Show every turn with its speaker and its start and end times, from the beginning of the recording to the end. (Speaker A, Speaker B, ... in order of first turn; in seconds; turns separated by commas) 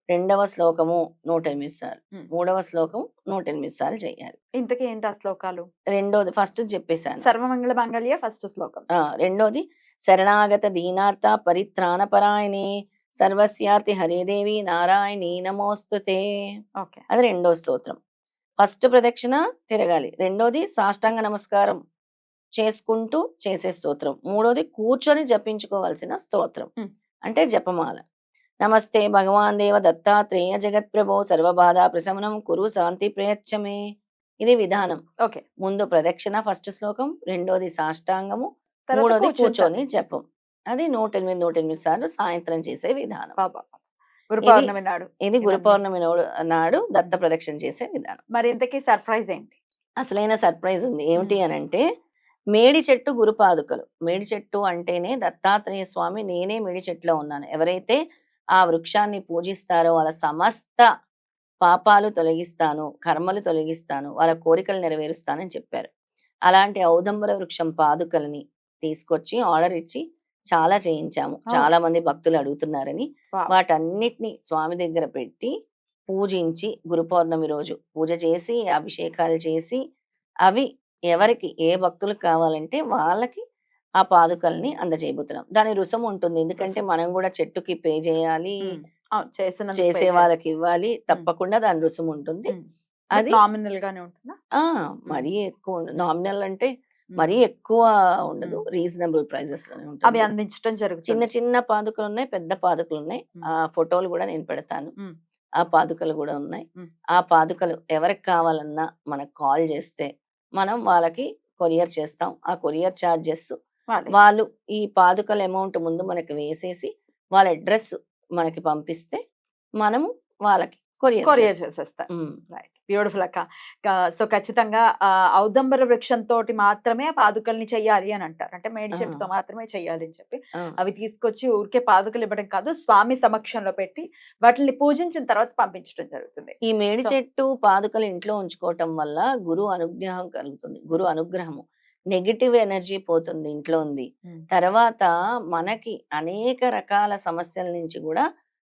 Speaker A: 0.1-4.3, Speaker B: 4.6-5.7, Speaker A: 5.9-7.2, Speaker B: 7.2-8.8, Speaker A: 9.0-12.7, Speaker A: 13.2-16.2, Speaker A: 17.1-18.0, Speaker A: 18.6-21.8, Speaker A: 22.6-26.7, Speaker A: 27.2-28.0, Speaker A: 28.6-33.8, Speaker A: 34.4-35.0, Speaker A: 35.6-43.4, Speaker B: 38.9-39.7, Speaker B: 43.4-43.8, Speaker B: 44.3-45.8, Speaker A: 44.4-44.7, Speaker A: 45.2-48.2, Speaker B: 48.4-49.6, Speaker A: 50.0-51.8, Speaker A: 52.5-58.0, Speaker A: 58.6-60.9, Speaker A: 61.6-65.9, Speaker A: 66.5-75.5, Speaker A: 76.1-79.8, Speaker A: 80.5-83.4, Speaker A: 84.0-88.6, Speaker B: 88.7-90.3, Speaker A: 89.8-92.5, Speaker B: 92.5-94.3, Speaker A: 94.6-100.3, Speaker B: 100.0-101.2, Speaker A: 101.1-104.9, Speaker A: 105.6-106.6, Speaker A: 107.2-113.5, Speaker A: 114.1-119.2, Speaker A: 119.8-121.5, Speaker B: 121.2-137.1, Speaker A: 128.9-129.2, Speaker A: 136.7-148.2